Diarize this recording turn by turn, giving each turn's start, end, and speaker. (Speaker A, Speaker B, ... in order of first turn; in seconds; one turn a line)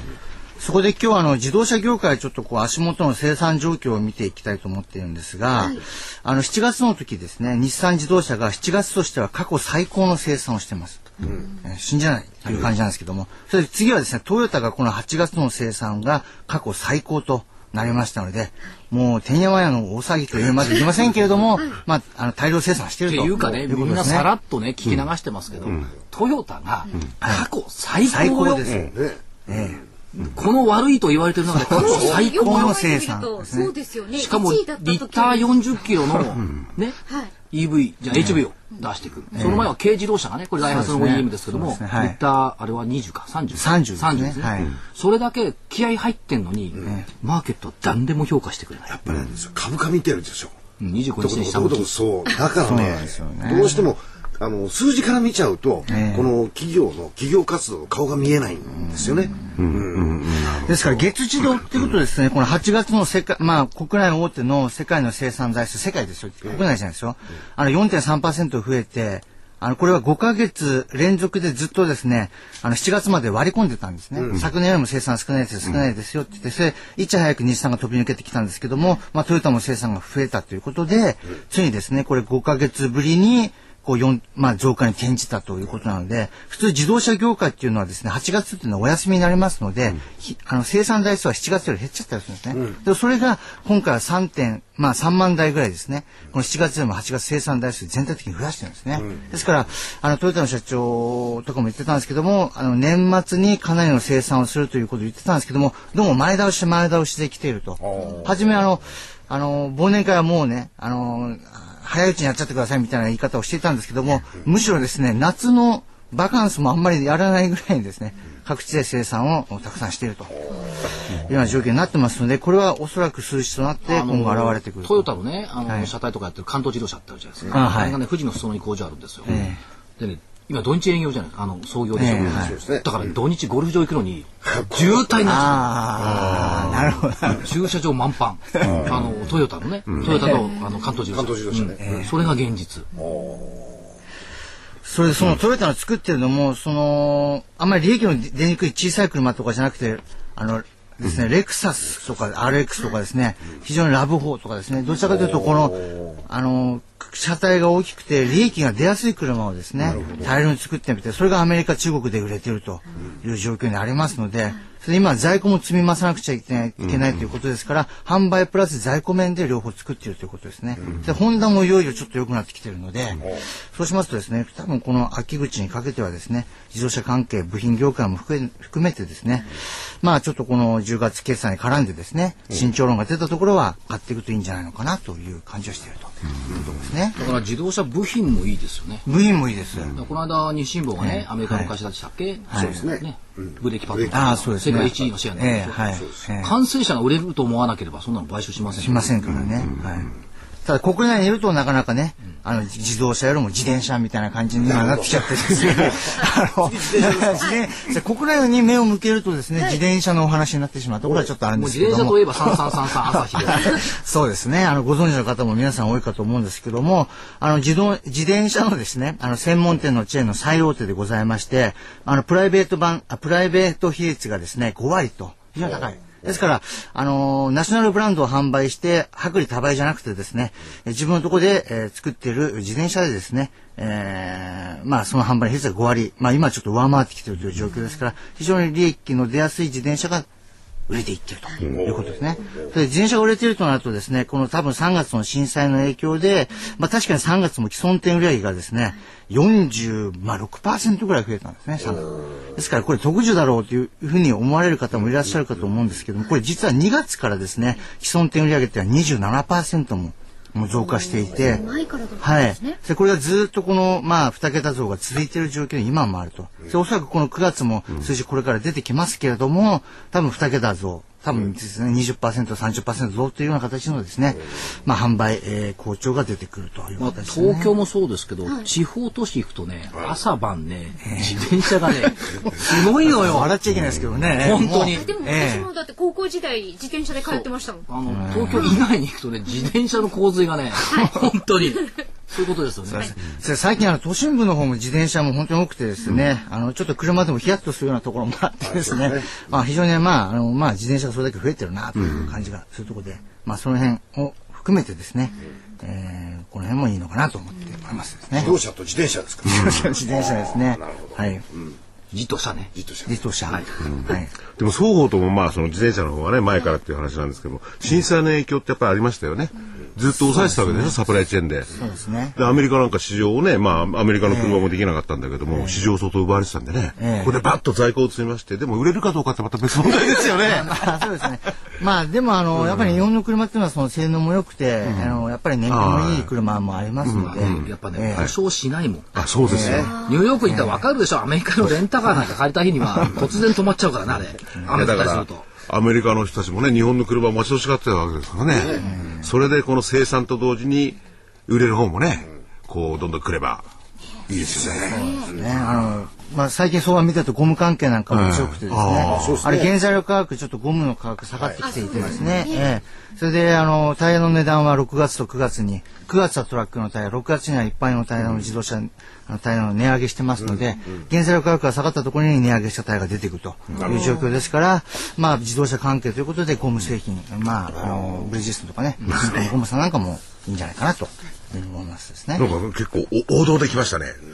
Speaker A: 0.6-24.3
Speaker B: 23.1-28.7
Speaker A: 27.2-27.5
Speaker A: 28.0-28.9
Speaker C: 28.7-29.7
Speaker A: 29.5-29.8
Speaker B: 30.1-32.8
Speaker A: 31.6-33.7
Speaker D: 31.8-35.5
Speaker B: 34.1-37.0
Speaker B: 37.5-48.9
Speaker A: 39.3-39.7
Speaker A: 40.6-42.2
Speaker A: 43.5-44.7
Speaker C: 48.9-50.6
Speaker B: 50.8-51.9
Speaker C: 51.2-60.4
Speaker A: 52.6-53.8
Speaker A: 55.9-56.3
Speaker E: 59.6-60.7
Speaker A: 60.6-120.3
Speaker C: 99.0-99.3
Speaker C: 107.8-108.4
Speaker A: 121.1-125.1
Speaker B: 123.9-129.4
Speaker A: 127.5-128.0
Speaker A: 129.2-129.6
Speaker B: 130.0-135.7
Speaker A: 131.9-132.6
Speaker C: 132.2-132.9
Speaker C: 134.4-135.1
Speaker A: 135.2-137.5
Speaker E: 136.1-136.9
Speaker B: 137.2-142.9
Speaker E: 138.6-138.9
Speaker A: 140.1-140.4
Speaker C: 141.1-142.1
Speaker A: 141.8-142.1
Speaker C: 142.9-143.9
Speaker A: 144.8-187.2
Speaker C: 155.1-156.1
Speaker C: 159.8-160.3
Speaker B: 187.1-189.1
Speaker A: 189.1-190.0
Speaker B: 189.9-199.3
Speaker A: 191.0-191.7
Speaker C: 192.5-194.9
Speaker A: 194.1-196.5
Speaker A: 198.8-200.1
Speaker A: 200.6-240.3
Speaker C: 204.7-207.6
Speaker B: 211.5-213.8
Speaker A: 240.9-277.7
Speaker C: 241.7-242.1
Speaker D: 261.3-262.8
Speaker B: 277.0-283.5
Speaker A: 281.0-281.4
Speaker A: 282.6-285.7
Speaker B: 284.4-285.1
Speaker D: 284.9-287.9
Speaker B: 287.2-293.1
Speaker A: 288.1-288.7
Speaker A: 292.9-308.6
Speaker C: 298.6-299.4
Speaker C: 308.4-311.2
Speaker A: 309.4-311.4
Speaker B: 312.1-312.7
Speaker C: 312.8-313.1
Speaker A: 313.1-314.3
Speaker E: 314.1-330.9
Speaker A: 320.3-320.9
Speaker A: 321.8-322.4
Speaker A: 324.2-324.7
Speaker A: 325.5-325.9
Speaker A: 327.0-327.4
Speaker A: 330.3-338.3
Speaker E: 332.6-333.0
Speaker E: 334.9-336.3
Speaker E: 337.1-338.3
Speaker B: 337.2-339.2
Speaker E: 339.1-339.9
Speaker A: 339.4-339.9
Speaker C: 339.4-339.9
Speaker B: 339.9-345.5
Speaker D: 339.9-340.2
Speaker A: 340.4-340.8
Speaker E: 344.6-353.6
Speaker C: 348.5-348.9
Speaker A: 348.8-349.2
Speaker E: 354.3-354.9
Speaker C: 354.3-355.3
Speaker A: 354.9-382.4
Speaker D: 354.9-355.2
Speaker E: 358.1-359.4
Speaker C: 359.1-359.7
Speaker D: 361.6-362.6
Speaker C: 373.8-374.1
Speaker C: 377.9-378.2
Speaker E: 382.4-384.2